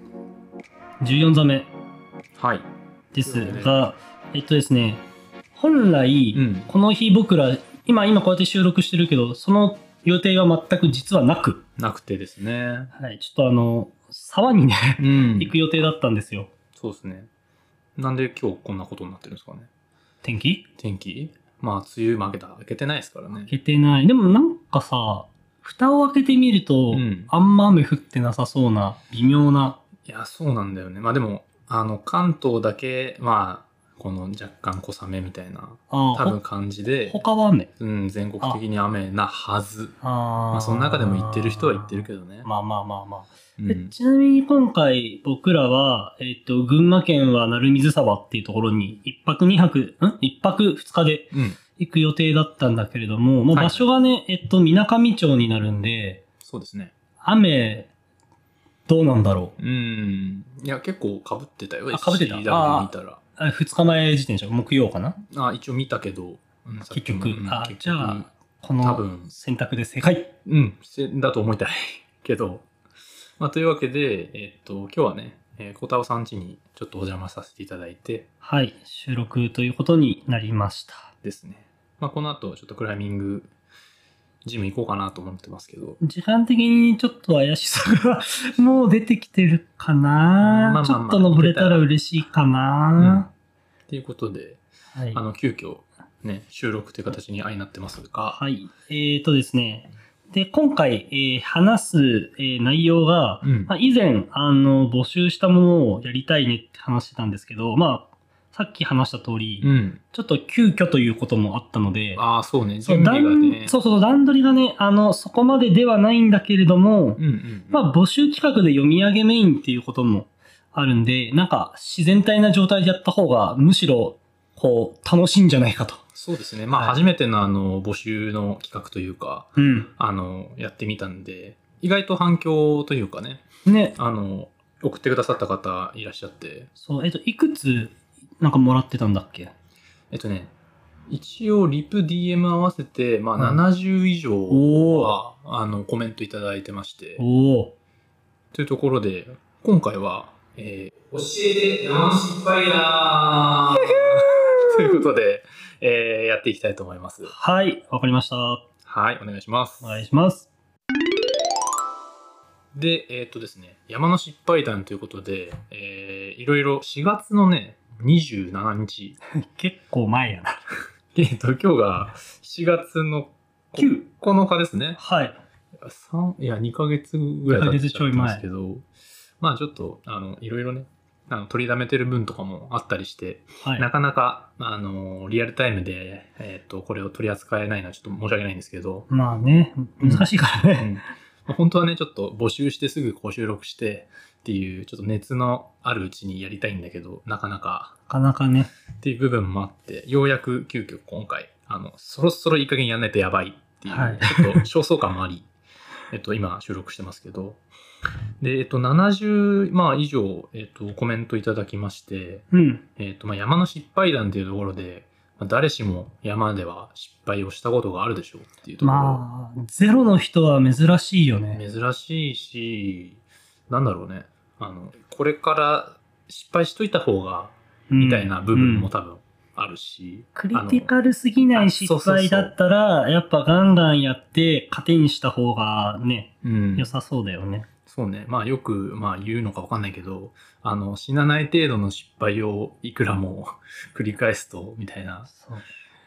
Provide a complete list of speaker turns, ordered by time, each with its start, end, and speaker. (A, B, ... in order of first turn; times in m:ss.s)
0:01.0-0:01.7 A
0:02.4-0:02.7 B
0:03.1-0:05.0 A
0:03.2-0:03.9 B
0:05.6-0:11.6 A
0:06.3-0:06.7 B
0:11.8-0:12.9 B
0:13.0-0:16.5 A
0:15.0-0:15.6 B
0:16.8-0:17.3 B
0:18.0-0:19.7 B
0:20.2-0:20.7 A
0:20.8-0:23.5 B
0:23.5-0:29.8 A
0:26.9-0:27.3 B
0:30.0-0:37.2 B
0:35.9-0:36.4 A
0:37.1-0:37.7 A
0:37.8-0:40.0 B
0:40.0-0:56.2 A
0:40.5-0:42.5 B
0:43.6-0:43.9 B
0:51.3-0:51.6 B
0:53.5-0:53.9 B
0:56.4-0:56.9 B
0:57.2-0:57.9 A
0:58.9-0:59.6 A
0:59.6-1:03.2 B
1:01.9-1:05.2 A
1:05.3-1:08.3 B
1:06.9-1:10.3 A
1:08.8-1:09.3 B
1:10.5-1:12.7 B
1:13.4-1:18.3 B
1:18.4-1:21.1 A
1:21.2-1:23.5 B
1:24.4-1:26.0 B
1:26.0-1:33.3 A
1:30.4-1:31.8 B
1:33.0-1:33.3 B
1:33.9-1:34.6 B
1:34.9-1:35.2 A
1:35.1-1:38.4 B
1:38.3-1:52.2 A
1:43.4-1:43.7 B
1:49.6-1:50.0 B
1:52.2-1:53.8 B
1:52.8-2:06.0 A
1:57.2-1:57.8 B
2:06.2-2:13.4 B
2:06.7-2:07.0 A
2:09.6-2:09.9 A
2:13.7-2:14.0 A
2:14.0-2:16.7 B
2:16.8-2:19.5 A
2:20.1-2:20.5 B
2:21.1-2:27.2 B
2:23.4-2:23.6 A
2:24.5-2:25.2 A
2:27.2-2:27.7 A
2:28.5-2:37.3 B
2:33.8-2:34.8 A
2:37.3-2:38.6 A
2:38.8-2:40.0 B
2:39.8-2:40.5 A
2:42.7-2:49.2 B
2:49.4-2:50.6 A
2:51.1-2:55.0 B
2:53.8-2:54.1 A
2:55.0-2:55.4 A
2:55.8-2:58.9 B
2:57.5-2:58.4 A
2:59.4-3:09.1 B
3:09.1-3:11.0 A
3:10.0-3:17.9 B
3:18.1-3:18.7 A
3:19.0-3:25.5 B
3:23.9-3:24.7 A
3:26.1-3:27.6 B
3:28.4-3:32.5 B
3:32.5-3:32.8 A
3:33.0-3:39.2 B
3:38.8-3:41.6 A
3:41.5-3:50.9 B
3:47.9-3:48.9 A
3:50.4-3:57.7 A
3:51.5-3:52.5 B
3:56.4-3:56.9 B
3:57.9-4:05.3 B
4:05.3-4:05.7 A